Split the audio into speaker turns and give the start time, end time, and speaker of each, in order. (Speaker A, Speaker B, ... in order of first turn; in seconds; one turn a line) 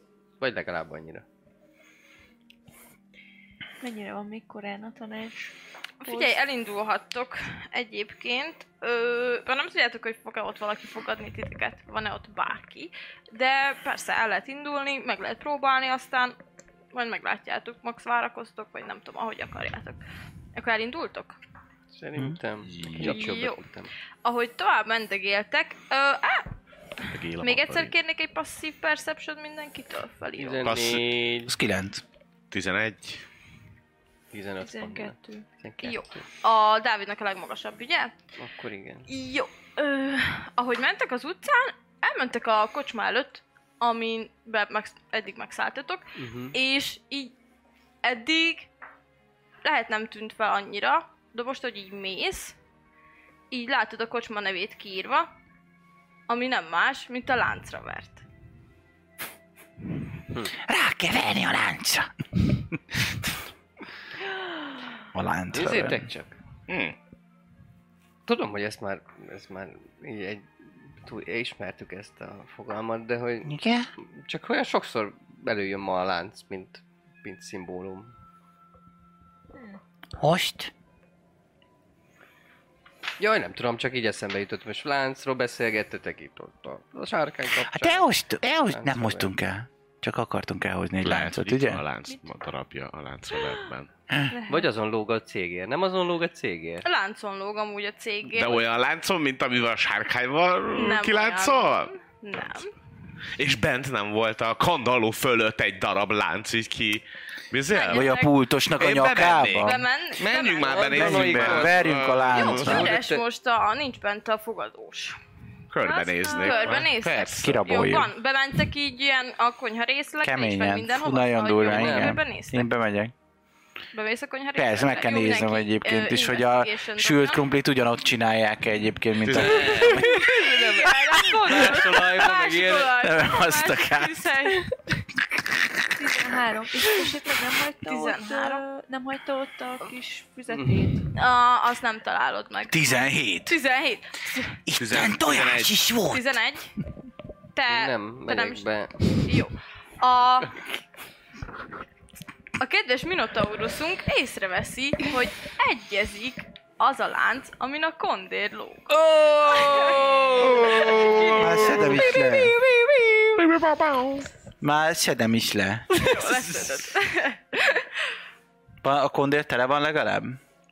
Speaker A: 0.4-1.2
Speaker B: 3.8-6.4
Speaker C: 6.0-16.4
Speaker C: 16.9-20.0
Speaker C: 20.6-21.4
Speaker A: 21.9-23.9
Speaker D: 22.7-23.2
Speaker C: 23.0-23.6
Speaker C: 24.2-26.5
Speaker D: 27.1-27.9
Speaker C: 27.4-30.7
Speaker A: 30.4-31.6
Speaker D: 30.6-31.1
Speaker E: 31.5-32.0
Speaker D: 32.5-33.2
Speaker A: 34.3-36.2
Speaker B: 34.6-35.5
Speaker C: 35.8-38.1
Speaker A: 38.4-39.1
Speaker C: 39.1-47.3
Speaker A: 46.2-46.6
Speaker C: 48.0-48.7
Speaker C: 49.6-52.6
Speaker C: 53.5-55.3
Speaker C: 56.3-58.2
Speaker F: 60.7-62.1
Speaker E: 65.1-66.1
Speaker A: 65.5-66.4
Speaker D: 66.7-67.0
Speaker A: 68.3-70.5
Speaker A: 71.0-78.1
Speaker F: 73.5-73.9
Speaker F: 80.2-80.7
Speaker A: 83.2-88.1
Speaker F: 87.7-89.5
Speaker A: 88.7-89.3
Speaker E: 90.0-91.8
Speaker D: 91.0-93.9
Speaker B: 92.0-92.3
Speaker B: 93.3-93.7
Speaker B: 94.3-94.7
Speaker A: 94.5-96.8
Speaker C: 96.8-98.7
Speaker D: 98.3-102.6
Speaker C: 100.7-102.7
Speaker D: 103.3-108.2
Speaker C: 107.7-108.3
Speaker E: 107.9-109.8
Speaker D: 108.8-112.9
Speaker C: 109.6-111.0
Speaker A: 110.7-113.2
Speaker E: 110.9-112.9
Speaker C: 112.3-115.2
Speaker D: 115.7-117.5
Speaker B: 115.8-116.9
Speaker C: 116.2-122.7
Speaker E: 117.4-118.1
Speaker E: 120.2-123.1
Speaker A: 121.7-122.2
Speaker C: 123.9-127.5
Speaker E: 124.5-130.2
Speaker D: 129.2-129.9
Speaker A: 129.3-133.0
Speaker C: 129.8-134.7
Speaker E: 133.0-134.3
Speaker B: 136.0-141.1
Speaker C: 137.8-138.6
Speaker A: 140.5-141.0
Speaker C: 141.2-144.6
Speaker E: 142.7-143.5
Speaker F: 144.7-146.3
Speaker D: 144.8-145.9
Speaker C: 146.1-146.7
Speaker C: 147.5-148.7
Speaker A: 147.7-149.4
Speaker C: 149.2-150.6
Speaker C: 152.6-158.9
Speaker A: 158.9-163.3
Speaker C: 159.4-162.2
Speaker D: 160.7-161.8
Speaker E: 161.4-162.6
Speaker D: 163.4-164.3
Speaker E: 164.6-165.9
Speaker C: 165.9-167.9
Speaker A: 166.1-166.6
Speaker E: 168.8-170.4